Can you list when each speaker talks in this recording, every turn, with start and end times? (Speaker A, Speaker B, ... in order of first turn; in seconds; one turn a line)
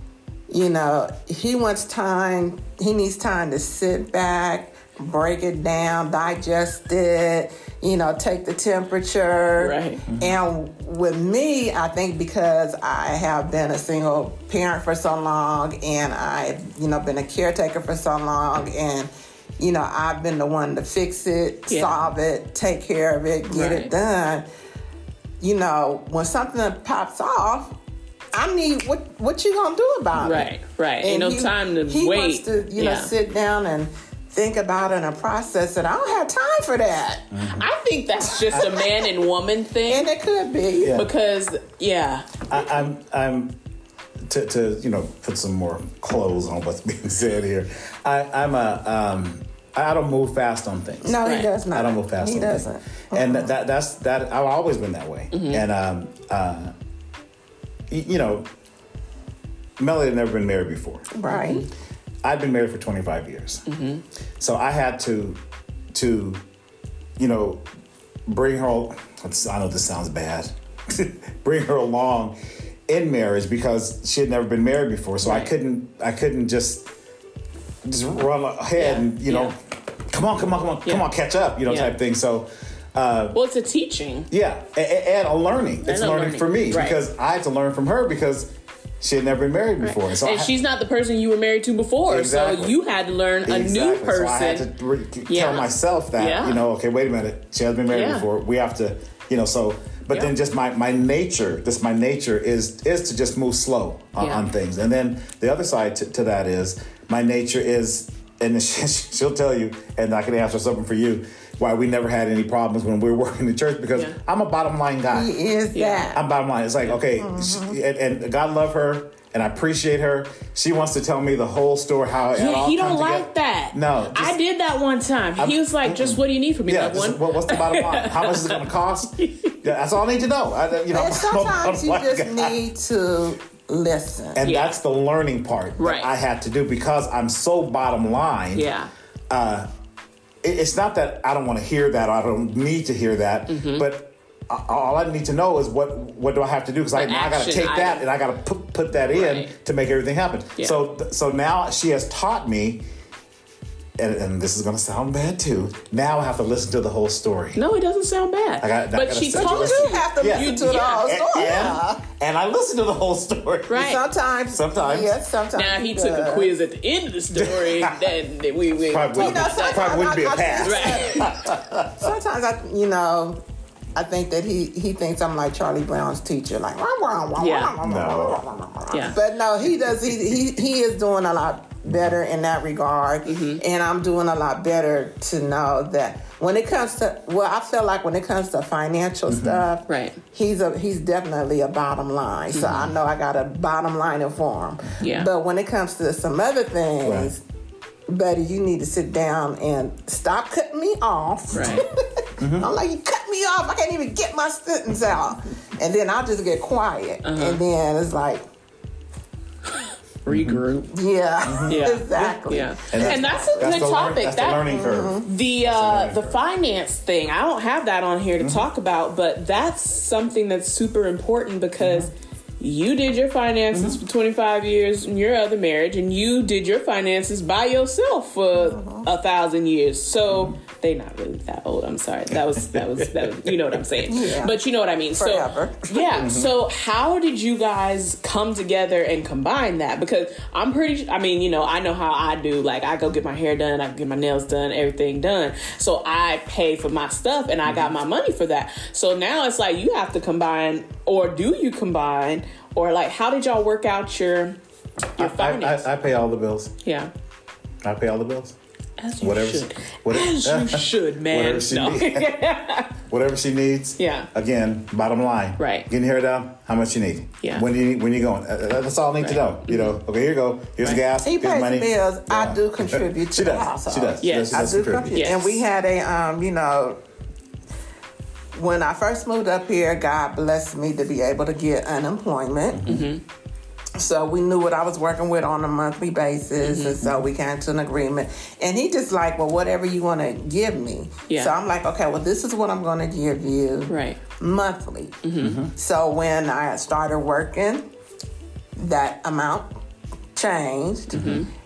Speaker A: 0.5-24.5
Speaker B: 9.6-10.0
Speaker C: 10.1-10.3
Speaker B: 23.5-23.9
Speaker A: 25.4-27.7
Speaker A: 28.3-30.5
Speaker B: 30.2-33.1
Speaker A: 31.0-37.3
Speaker C: 37.3-37.7
Speaker B: 37.6-40.1
Speaker A: 39.9-41.0
Speaker C: 40.8-41.1
Speaker B: 40.9-42.5
Speaker C: 42.5-43.6
Speaker C: 44.3-51.2
Speaker A: 51.0-53.5
Speaker C: 51.7-56.7
Speaker B: 55.3-55.6
Speaker C: 57.9-58.5
Speaker C: 59.8-61.1
Speaker A: 61.1-61.6
Speaker B: 61.3-61.7
Speaker C: 62.2-63.6
Speaker B: 63.7-64.0
Speaker C: 64.4-65.4
Speaker C: 65.9-66.4
Speaker C: 67.2-67.6
Speaker C: 68.3-72.4
Speaker C: 72.9-76.9
Speaker B: 75.2-75.5
Speaker C: 77.8-79.6
Speaker B: 78.8-79.5
Speaker C: 80.1-83.4
Speaker B: 81.7-81.9
Speaker B: 83.3-84.3
Speaker C: 84.3-90.5
Speaker B: 85.9-87.0
Speaker B: 89.8-94.7
Speaker C: 92.1-92.8
Speaker C: 93.5-115.3
Speaker B: 95.3-96.6
Speaker B: 97.9-98.3
Speaker B: 104.2-104.5
Speaker A: 115.1-116.2
Speaker B: 115.7-116.1
Speaker C: 116.1-124.3
Speaker A: 117.2-117.8
Speaker B: 122.3-129.6
Speaker C: 125.4-132.6
Speaker A: 130.9-134.4
Speaker C: 134.4-138.7
Speaker B: 134.4-134.8
Speaker B: 135.8-136.1
Speaker B: 138.5-138.9
Speaker C: 139.3-139.7
Speaker C: 140.4-152.8
Speaker B: 143.5-143.9
Speaker B: 146.9-148.0
Speaker B: 149.1-149.5
Speaker C: 154.0-157.6
Speaker B: 157.6-161.6
Speaker C: 158.6-163.9
Speaker A: 159.3-162.0
Speaker B: 163.7-164.1
Speaker A: 163.7-166.5
Speaker C: 164.5-165.1
Speaker B: 165.6-169.9
Speaker C: 167.4-168.1
Speaker C: 168.9-172.1
Speaker A: 169.2-171.4
Speaker B: 170.6-171.4
Speaker A: 172.0-173.4
Speaker A: 173.9-197.4
Speaker B: 177.4-177.7
Speaker C: 177.8-178.4
Speaker B: 178.9-179.2
Speaker C: 181.9-182.1
Speaker B: 183.2-183.6
Speaker C: 189.3-189.6
Speaker B: 189.9-190.2
Speaker B: 192.5-192.9
Speaker B: 195.0-195.3
Speaker C: 197.0-197.3
Speaker A: 198.1-208.4
Speaker B: 201.5-201.8
Speaker C: 201.5-201.8
Speaker C: 202.4-202.7
Speaker B: 207.2-207.6
Speaker B: 209.7-210.9
Speaker C: 210.3-210.6
Speaker A: 210.9-213.8
Speaker C: 211.5-211.8
Speaker B: 211.7-254.6
Speaker C: 212.9-216.4
Speaker A: 214.6-215.3
Speaker A: 228.6-229.1
Speaker C: 232.3-233.8
Speaker A: 234.1-234.6
Speaker A: 235.1-236.0
Speaker C: 236.2-236.5
Speaker B: 255.2-255.9
Speaker C: 255.2-256.8
Speaker B: 256.8-257.1
Speaker C: 257.8-258.6
Speaker B: 259.0-262.9
Speaker C: 259.2-262.3
Speaker C: 263.1-275.3
Speaker B: 264.0-264.3
Speaker B: 265.6-265.9
Speaker B: 267.4-267.7
Speaker B: 269.2-270.0
Speaker A: 271.2-277.0
Speaker B: 274.2-275.6
Speaker A: 278.5-282.9
Speaker C: 282.8-283.1
Speaker B: 282.9-283.2
Speaker A: 284.0-295.2
Speaker B: 286.6-287.1
Speaker B: 293.9-294.2
Speaker B: 295.2-295.6
Speaker C: 295.4-295.7
Speaker A: 295.7-297.8
Speaker A: 298.8-299.7
Speaker A: 300.4-301.3
Speaker B: 301.1-301.5
Speaker C: 301.2-301.4